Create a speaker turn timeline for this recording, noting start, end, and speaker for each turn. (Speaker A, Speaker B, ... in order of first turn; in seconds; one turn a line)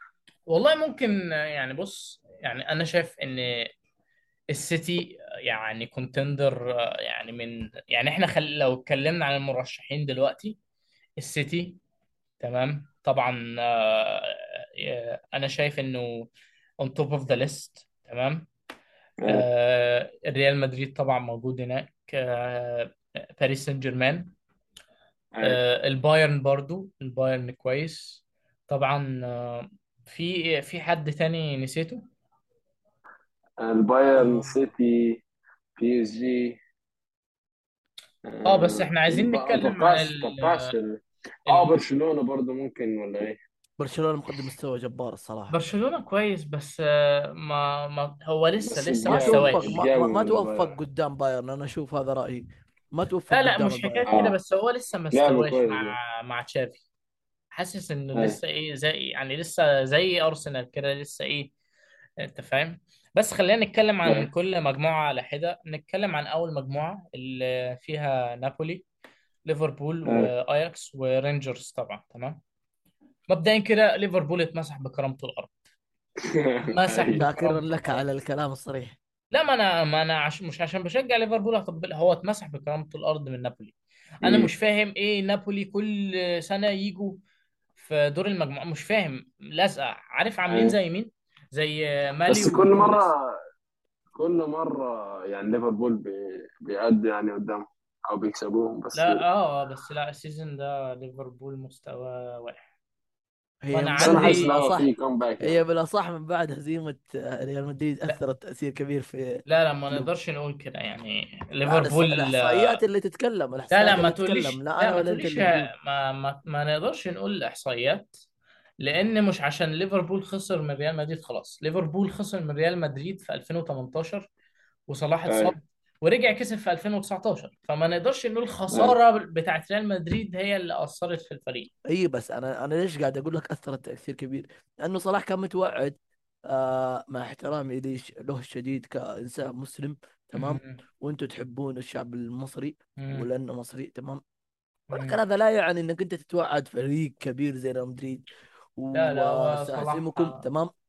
Speaker A: 0.5-3.7
Speaker A: 4.5-10.6
Speaker A: 11.2-11.8
Speaker A: 12.4-16.3
Speaker A: 16.8-18.5
Speaker A: 19.3-24.3
Speaker B: 25.3-25.6
Speaker A: 25.4-32.0
Speaker B: 33.6-35.2
Speaker B: 35.8-36.6
Speaker B: 38.2-43.4
Speaker A: 38.4-40.7
Speaker C: 43.8-45.6
Speaker A: 45.5-49.8
Speaker B: 48.7-50.8
Speaker C: 49.0-54.1
Speaker A: 53.3-56.8
Speaker B: 54.1-54.4
Speaker B: 55.1-56.0
Speaker A: 57.5-61.5
Speaker A: 62.2-68.8
Speaker A: 69.5-72.4
Speaker B: 70.0-70.3
Speaker A: 73.3-75.6
Speaker B: 76.2-77.2
Speaker A: 76.7-78.0
Speaker C: 77.1-79.0
Speaker A: 79.3-87.2
Speaker B: 84.2-84.5
Speaker A: 87.8-93.1
Speaker B: 90.5-90.8
Speaker B: 92.3-93.2
Speaker B: 94.2-99.2
Speaker A: 98.9-102.7
Speaker C: 103.6-104.9
Speaker A: 103.7-104.5
Speaker B: 104.0-105.6
Speaker C: 105.4-110.1
Speaker A: 109.5-112.8
Speaker C: 111.7-115.7
Speaker A: 113.7-118.1
Speaker A: 118.8-124.3
Speaker A: 124.9-131.7
Speaker B: 125.3-125.5
Speaker C: 131.9-135.9
Speaker C: 136.5-144.2
Speaker A: 140.3-140.8
Speaker A: 143.0-143.2
Speaker A: 144.9-145.2
Speaker C: 144.9-148.2
Speaker C: 148.8-150.7
Speaker A: 148.9-150.4